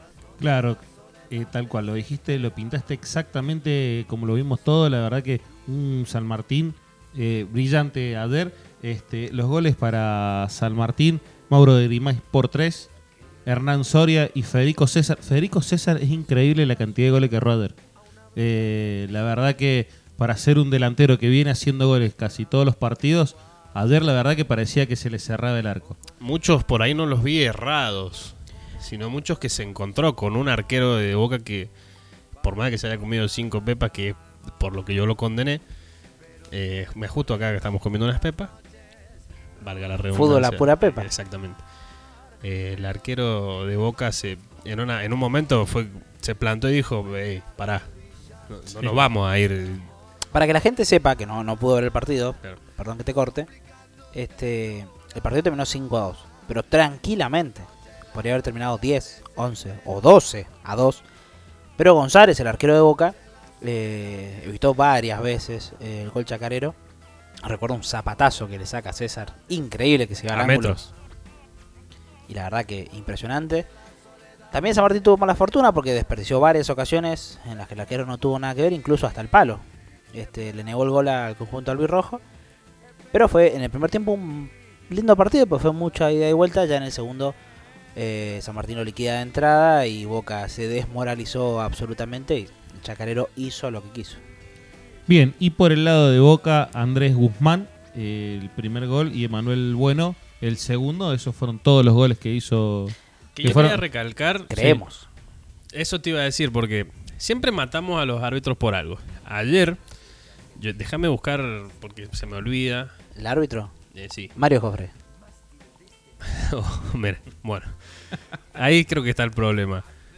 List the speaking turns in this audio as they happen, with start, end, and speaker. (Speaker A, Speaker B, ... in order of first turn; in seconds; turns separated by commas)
Speaker A: 0.4-12.9, Speaker A: 13.5-17.8, Speaker A: 18.4-26.0, Speaker B: 26.2-31.7, Speaker B: 32.4-35.6, Speaker B: 36.5-38.5, Speaker B: 39.6-41.6, Speaker C: 40.1-41.1, Speaker B: 42.4-47.9, Speaker B: 48.5-49.9, Speaker C: 50.3-53.5, Speaker C: 54.1-61.0, Speaker C: 61.8-66.8, Speaker C: 67.4-70.8, Speaker B: 70.3-70.9, Speaker C: 72.3-73.7, Speaker C: 74.5-79.6, Speaker C: 80.1-82.2, Speaker C: 83.1-87.3, Speaker C: 88.0-94.2, Speaker A: 95.1-103.8, Speaker B: 103.4-104.8, Speaker C: 104.5-105.1, Speaker B: 105.7-109.8, Speaker B: 110.6-112.9, Speaker C: 113.2-113.7, Speaker B: 113.9-114.3, Speaker C: 114.4-114.9, Speaker B: 116.2-119.8